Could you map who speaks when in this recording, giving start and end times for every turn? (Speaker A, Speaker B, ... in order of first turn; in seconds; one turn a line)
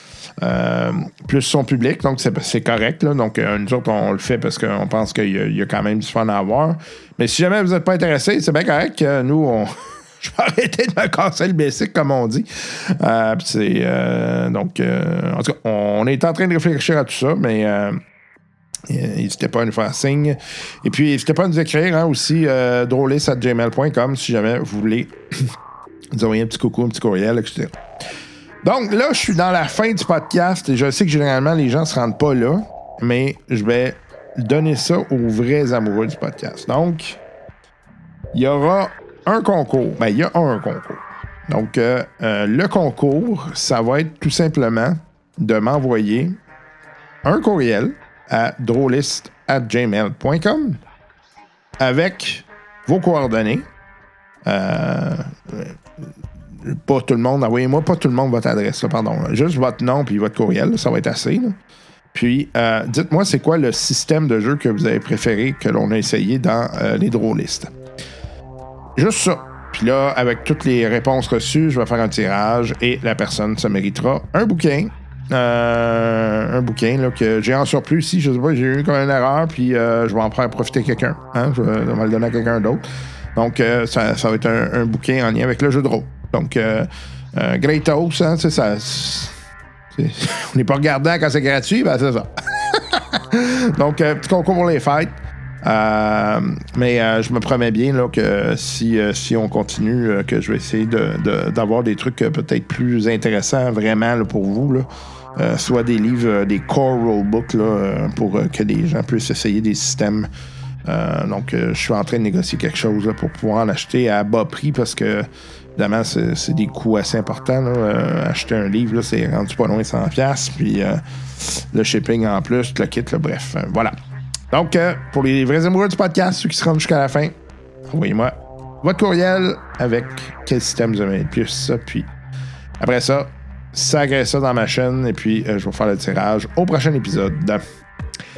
Speaker A: 0.4-18.0
Speaker A: 18.9-25.5
Speaker A: 26.1-27.8
Speaker A: 28.6-37.2
Speaker A: 38.3-46.4
Speaker A: 47.2-50.8
Speaker A: 51.8-53.6
Speaker A: 54.4-55.8
Speaker A: 56.6-61.6
Speaker A: 62.1-67.7
Speaker A: 69.0-89.3
Speaker A: 89.9-110.3
Speaker A: 110.8-123.9
Speaker A: 124.5-127.3
Speaker A: 127.9-132.1
Speaker A: 132.8-137.6